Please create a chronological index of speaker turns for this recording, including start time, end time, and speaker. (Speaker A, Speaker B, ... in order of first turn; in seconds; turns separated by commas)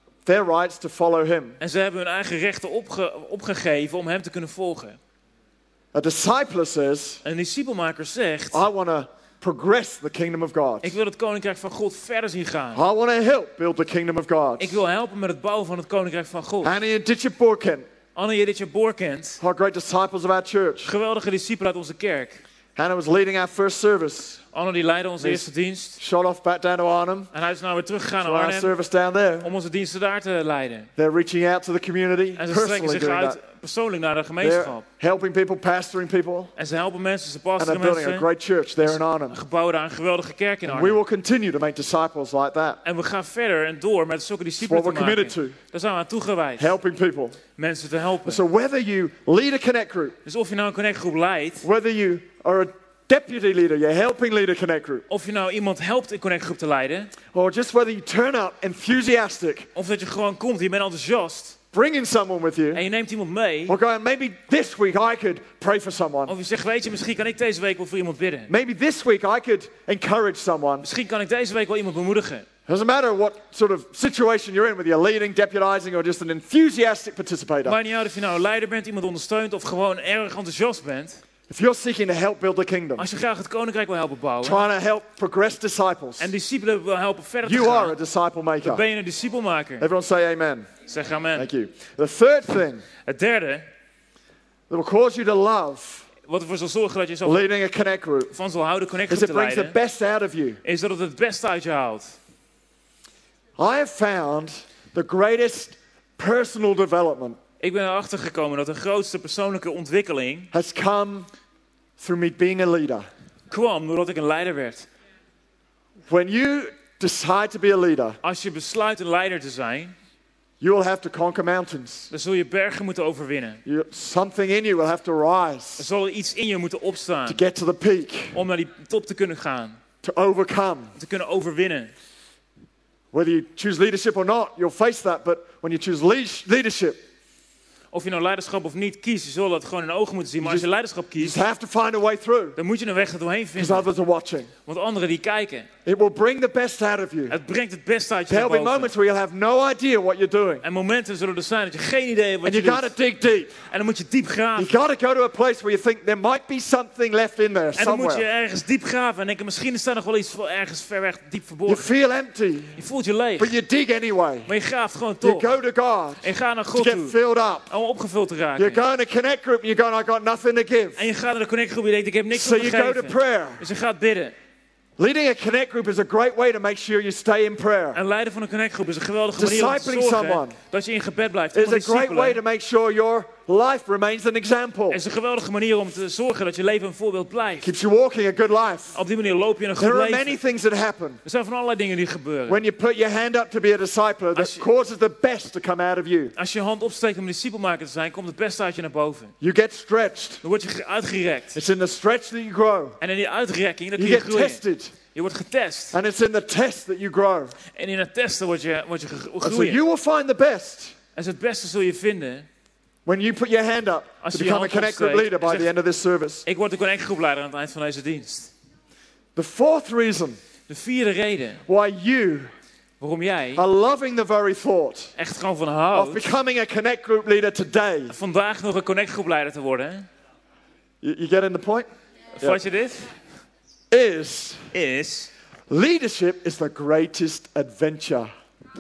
Speaker A: 0.2-1.6, Speaker B: 1.6-5.0, Speaker A: 5.9-7.2, Speaker B: 7.2-8.6, Speaker A: 8.5-10.9, Speaker B: 10.8-12.8, Speaker A: 12.7-14.8, Speaker B: 14.6-16.7, Speaker A: 16.6-17.9, Speaker B: 18.1-19.4, Speaker A: 19.4-20.9, Speaker B: 20.8-22.4, Speaker A: 22.8-24.4, Speaker B: 24.5-26.0, Speaker A: 25.2-25.5, Speaker A: 26.0-27.3, Speaker B: 27.3-28.7, Speaker A: 28.2-29.5, Speaker B: 29.4-30.9, Speaker A: 31.0-33.4, Speaker B: 32.4-34.8, Speaker A: 34.4-36.5, Speaker B: 36.5-38.3, Speaker A: 37.6-39.4, Speaker B: 39.3-41.0, Speaker A: 40.7-42.8, Speaker B: 42.8-46.7, Speaker A: 44.6-45.6, Speaker A: 46.6-47.4, Speaker B: 47.6-48.4, Speaker A: 48.2-50.1, Speaker B: 50.2-51.6, Speaker A: 51.6-55.0, Speaker B: 55.1-57.1, Speaker A: 57.3-59.7, Speaker B: 59.7-61.6, Speaker A: 61.7-62.8, Speaker B: 62.7-63.8, Speaker A: 63.7-66.3, Speaker B: 66.3-68.5, Speaker A: 68.5-70.8, Speaker B: 70.8-72.5, Speaker A: 72.7-77.8, Speaker B: 77.6-81.2, Speaker A: 81.5-83.1, Speaker B: 83.0-84.6, Speaker A: 84.4-86.3, Speaker B: 86.2-88.0, Speaker A: 87.4-88.8, Speaker B: 88.6-89.9, Speaker A: 89.8-90.7, Speaker B: 90.9-91.5, Speaker A: 91.3-92.8, Speaker B: 93.0-93.7, Speaker A: 94.7-96.1, Speaker B: 96.2-97.4, Speaker A: 97.2-98.3, Speaker B: 98.3-99.8, Speaker A: 99.1-100.6, Speaker B: 100.6-102.1, Speaker A: 103.6-107.4, Speaker B: 107.6-110.5, Speaker A: 110.5-111.3, Speaker A: 112.0-113.1, Speaker B: 113.5-114.9, Speaker A: 116.1-118.2, Speaker B: 118.2-119.9, Speaker A: 120.6-122.1, Speaker B: 122.1-123.6, Speaker A: 123.6-125.8, Speaker B: 125.8-127.4, Speaker A: 127.3-128.4, Speaker B: 128.3-129.8, Speaker A: 130.0-130.9, Speaker B: 130.9-131.9, Speaker A: 133.1-137.0, Speaker B: 137.9-141.4, Speaker A: 141.2-142.6, Speaker B: 142.6-143.9, Speaker A: 143.6-144.5, Speaker B: 144.7-145.7, Speaker A: 145.8-147.4, Speaker B: 147.3-148.9, Speaker A: 148.3-150.6, Speaker B: 150.6-152.9, Speaker A: 152.4-153.6, Speaker B: 153.7-154.7, Speaker A: 154.6-158.2, Speaker B: 157.8-161.9, Speaker A: 161.7-162.8, Speaker B: 162.8-163.5, Speaker A: 163.4-164.5, Speaker B: 164.4-165.5, Speaker A: 165.2-167.7, Speaker B: 166.2-167.2, Speaker B: 167.7-168.8, Speaker A: 168.6-171.1, Speaker B: 171.0-174.3, Speaker A: 172.3-173.6, Speaker A: 175.0-178.0, Speaker B: 177.9-182.4, Speaker A: 179.4-180.6, Speaker A: 181.5-185.0, Speaker B: 184.9-187.7, Speaker A: 187.6-189.0, Speaker B: 188.9-190.4, Speaker A: 189.8-191.2, Speaker B: 191.2-192.6, Speaker A: 192.5-196.3, Speaker B: 194.3-194.7, Speaker B: 196.3-199.3, Speaker A: 199.4-200.4, Speaker B: 200.4-201.6, Speaker A: 201.5-203.0, Speaker B: 203.0-205.9, Speaker A: 203.9-204.9, Speaker A: 205.9-207.6, Speaker B: 207.7-209.8, Speaker A: 209.4-210.9, Speaker B: 211.1-212.5, Speaker A: 213.1-216.4, Speaker B: 214.2-215.7, Speaker B: 216.4-218.5, Speaker A: 219.3-220.4, Speaker B: 220.7-221.6, Speaker A: 221.7-222.5, Speaker B: 223.0-223.6, Speaker A: 223.6-225.1, Speaker B: 225.2-226.3, Speaker A: 225.9-228.2, Speaker B: 228.1-230.1, Speaker A: 231.0-231.9, Speaker B: 232.4-233.1, Speaker A: 233.9-234.7, Speaker B: 234.7-235.3, Speaker A: 235.7-238.3